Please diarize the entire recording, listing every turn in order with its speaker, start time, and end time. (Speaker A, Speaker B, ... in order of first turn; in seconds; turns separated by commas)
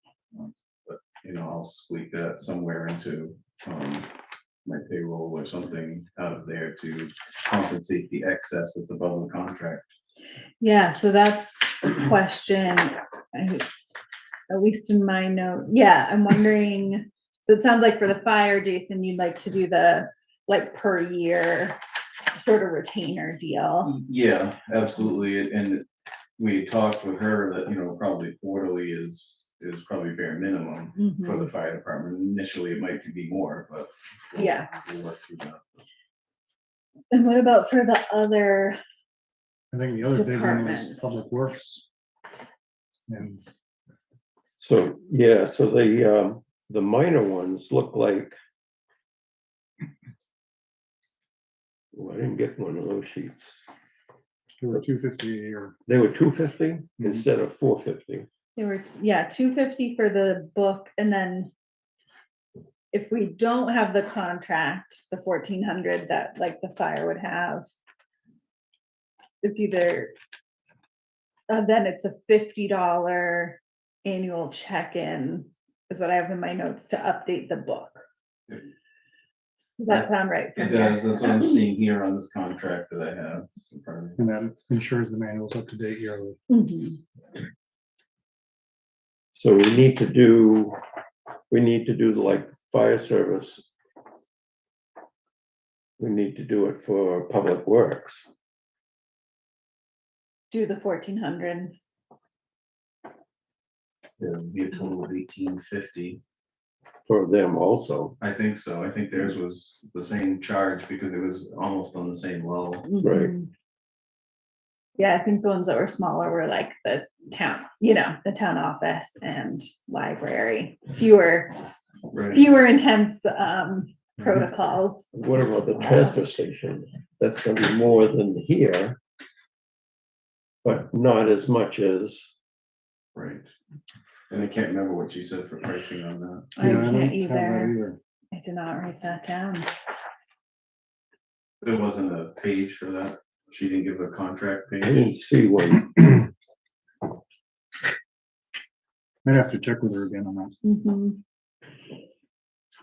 Speaker A: 0.3-4.1, Speaker A: 4.7-9.9, Speaker B: 10.6-13.7, Speaker B: 14.5-21.8, Speaker B: 22.3-23.9, Speaker A: 23.8-25.9, Speaker A: 26.4-35.6, Speaker B: 31.0-31.5, Speaker B: 34.4-34.7, Speaker B: 37.1-38.8, Speaker C: 39.7-41.9, Speaker B: 40.1-41.2, Speaker C: 43.1-43.4, Speaker D: 44.6-48.4, Speaker D: 51.9-53.5, Speaker C: 54.6-55.8, Speaker D: 55.9-58.3, Speaker C: 57.0-57.2, Speaker B: 58.5-61.5, Speaker B: 62.9-67.7, Speaker B: 69.4-70.1, Speaker B: 71.5-78.0, Speaker B: 79.8-81.6, Speaker A: 79.9-84.2, Speaker C: 84.2-86.4, Speaker B: 86.5-87.0, Speaker D: 89.3-90.8, Speaker D: 91.5-93.7, Speaker D: 96.0-98.2, Speaker B: 100.5-101.8, Speaker A: 104.2-106.2, Speaker D: 107.1-108.2, Speaker A: 108.2-112.9, Speaker B: 112.9-113.5, Speaker D: 113.0-113.3, Speaker B: 115.0-121.6, Speaker A: 122.1-122.4, Speaker B: 122.3-126.2, Speaker D: 125.1-129.0, Speaker D: 130.6-132.3, Speaker A: 133.1-133.5, Speaker A: 134.3-136.6, Speaker B: 136.6-137.8, Speaker C: 136.6-138.0, Speaker B: 138.3-139.7, Speaker A: 141.6-145.1, Speaker D: 144.8-146.2, Speaker C: 149.2-150.6, Speaker B: 150.6-151.2